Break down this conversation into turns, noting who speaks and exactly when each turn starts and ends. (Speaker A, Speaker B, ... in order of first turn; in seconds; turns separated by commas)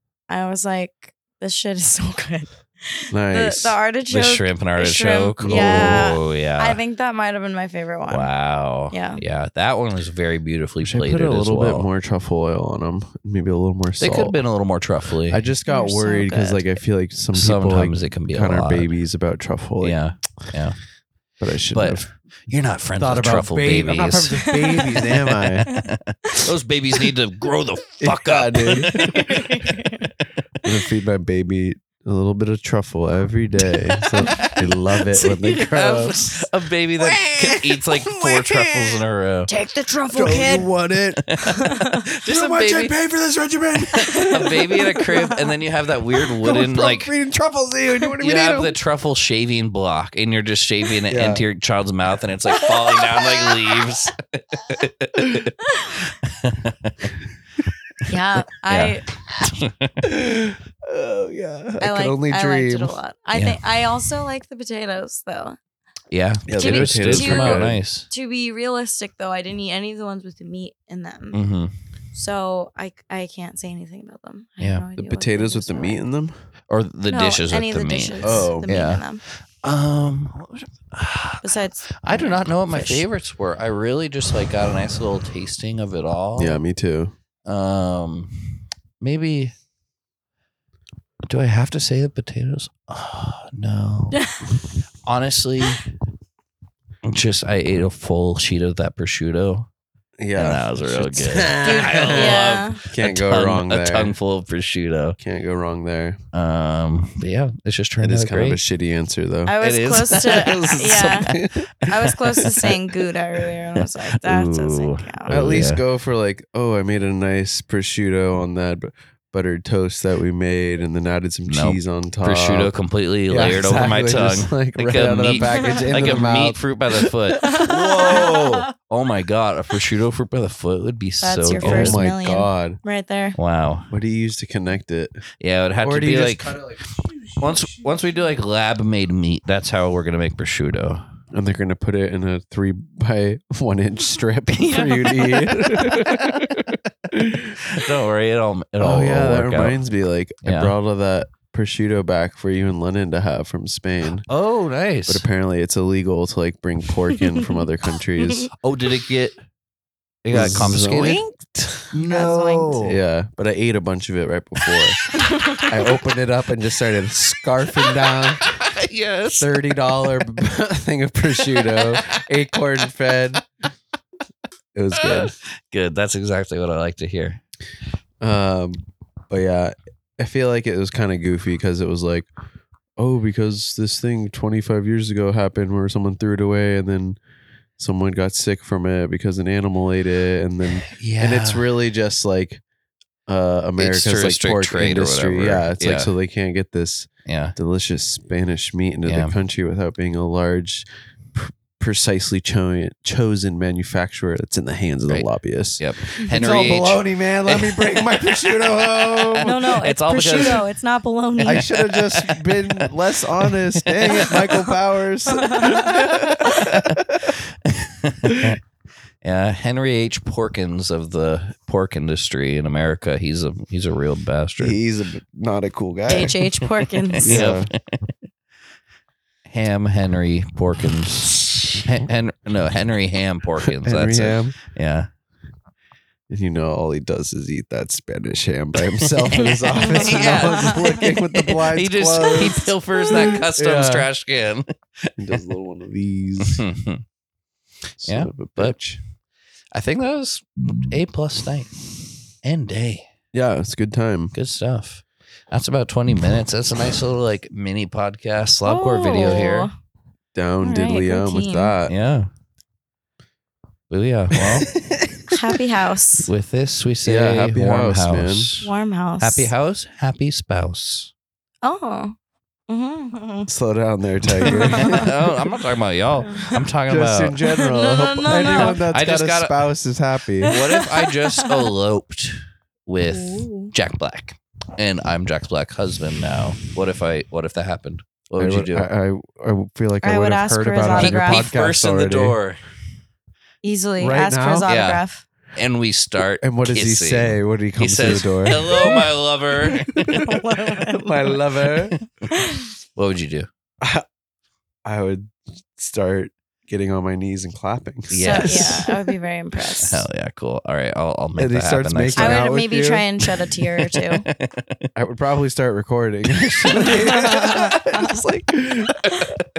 Speaker A: 0.3-8.3, Speaker B: 3.1-3.8, Speaker C: 4.1-6.8, Speaker B: 5.4-6.2, Speaker C: 8.1-11.9, Speaker A: 8.9-9.2, Speaker B: 10.8-14.4, Speaker C: 14.0-15.4, Speaker B: 15.3-20.0, Speaker A: 15.7-16.8, Speaker C: 17.3-19.0, Speaker C: 19.8-20.8, Speaker B: 21.4-22.1, Speaker C: 21.7-30.1, Speaker B: 23.0-25.6, Speaker A: 24.6-25.0, Speaker A: 25.7-26.3, Speaker B: 28.0-29.4, Speaker A: 28.9-30.1, Speaker B: 30.6-36.4, Speaker C: 33.6-39.5, Speaker A: 35.2-35.7, Speaker B: 37.0-39.0, Speaker A: 39.5-40.7, Speaker B: 40.1-41.3, Speaker C: 41.4-43.0, Speaker A: 41.5-42.0, Speaker B: 42.1-45.2, Speaker C: 43.9-47.1, Speaker A: 44.2-44.6, Speaker A: 45.1-45.4, Speaker B: 46.4-48.8, Speaker C: 48.2-57.1, Speaker B: 51.1-51.4, Speaker A: 52.7-53.8, Speaker A: 58.1-59.0, Speaker C: 58.7-59.9, Speaker B: 60.0-63.0, Speaker A: 61.8-65.6, Speaker C: 63.3-63.6, Speaker C: 66.1-68.1, Speaker B: 66.5-67.8, Speaker A: 66.5-71.4, Speaker C: 71.3-71.7, Speaker A: 72.1-76.0, Speaker C: 74.6-74.8, Speaker B: 75.0-76.3, Speaker C: 76.7-79.0, Speaker A: 77.1-79.2, Speaker B: 78.2-78.7, Speaker C: 79.6-86.6, Speaker A: 81.4-83.1, Speaker B: 86.3-87.1, Speaker C: 87.5-88.3, Speaker C: 89.0-89.5, Speaker C: 91.2-94.2, Speaker A: 94.1-94.4, Speaker C: 95.0-95.8, Speaker C: 97.0-99.7, Speaker B: 100.2-104.2, Speaker C: 100.3-105.2, Speaker A: 101.6-102.8, Speaker B: 105.2-106.2, Speaker C: 106.3-108.6, Speaker B: 108.0-109.5, Speaker A: 109.5-115.3, Speaker C: 109.6-111.2, Speaker B: 110.1-112.8, Speaker C: 113.8-115.8, Speaker B: 115.3-122.7, Speaker C: 121.5-132.0, Speaker B: 123.3-126.6, Speaker A: 125.6-126.0, Speaker A: 127.4-128.6, Speaker B: 127.5-128.7, Speaker A: 131.2-133.3, Speaker B: 131.6-132.8, Speaker C: 133.3-133.9, Speaker B: 133.9-135.2, Speaker C: 135.4-136.6, Speaker B: 135.8-137.8, Speaker C: 137.4-141.0, Speaker B: 141.3-147.6, Speaker A: 144.6-145.5, Speaker C: 146.0-146.6, Speaker C: 147.7-149.8, Speaker B: 148.8-154.3, Speaker C: 150.4-150.7, Speaker C: 154.3-155.2, Speaker B: 155.1-158.5, Speaker A: 157.4-157.6, Speaker C: 158.6-159.4, Speaker C: 160.2-161.2, Speaker B: 160.3-161.9, Speaker C: 161.9-163.0, Speaker A: 162.1-162.9, Speaker B: 162.8-165.0, Speaker A: 165.2-165.7, Speaker B: 165.6-168.5, Speaker C: 167.9-170.1, Speaker B: 169.3-173.4, Speaker C: 171.4-172.2, Speaker B: 174.7-175.3, Speaker C: 174.9-177.4, Speaker B: 178.2-182.3, Speaker B: 183.0-187.2, Speaker B: 187.8-192.6, Speaker C: 190.9-191.7, Speaker B: 193.3-209.6, Speaker C: 193.8-196.1, Speaker C: 197.2-197.5, Speaker C: 199.1-199.3, Speaker C: 205.8-210.6, Speaker A: 209.4-211.7, Speaker C: 211.4-212.8, Speaker B: 211.4-217.3, Speaker C: 214.0-214.3, Speaker A: 215.3-216.6, Speaker C: 215.7-217.0, Speaker C: 217.7-218.6, Speaker C: 219.2-224.8, Speaker B: 224.6-226.4, Speaker A: 226.1-227.5, Speaker C: 226.1-226.5, Speaker C: 227.2-227.7, Speaker B: 227.2-227.7, Speaker C: 229.5-235.1, Speaker B: 233.6-234.6, Speaker B: 236.3-244.1, Speaker C: 239.3-245.2, Speaker A: 239.7-241.0, Speaker A: 243.1-243.3, Speaker B: 245.2-246.7, Speaker C: 246.6-247.0, Speaker B: 248.0-249.0, Speaker C: 248.0-248.8, Speaker C: 249.7-251.8, Speaker C: 252.4-253.1, Speaker B: 253.3-254.3, Speaker C: 254.3-259.7, Speaker A: 258.6-259.7, Speaker B: 260.3-261.9, Speaker A: 260.6-261.7, Speaker C: 261.9-262.3, Speaker C: 263.9-264.7, Speaker B: 264.4-265.3, Speaker A: 265.3-266.3, Speaker C: 266.2-271.1, Speaker B: 267.0-268.5, Speaker A: 268.6-269.5, Speaker A: 271.6-272.1, Speaker A: 272.7-273.5, Speaker B: 273.5-275.1, Speaker A: 274.4-275.1, Speaker C: 274.7-277.4, Speaker A: 276.2-276.5, Speaker B: 276.9-280.5, Speaker A: 277.5-278.9, Speaker C: 278.4-279.6, Speaker A: 280.4-281.6, Speaker C: 280.4-288.9, Speaker A: 283.1-283.7, Speaker B: 288.4-292.4, Speaker A: 290.0-291.5, Speaker C: 290.9-292.6, Speaker A: 293.6-295.2, Speaker B: 294.0-294.7, Speaker C: 294.6-295.0, Speaker C: 295.5-300.4, Speaker B: 296.4-299.1, Speaker A: 300.1-301.4, Speaker B: 300.9-302.0, Speaker A: 302.3-302.7, Speaker C: 302.9-303.5, Speaker B: 304.8-309.1, Speaker C: 308.1-308.8, Speaker A: 308.2-310.1, Speaker C: 309.8-312.4, Speaker B: 311.4-313.1, Speaker A: 312.1-314.2, Speaker C: 313.9-314.8, Speaker B: 314.9-319.3, Speaker A: 316.9-318.2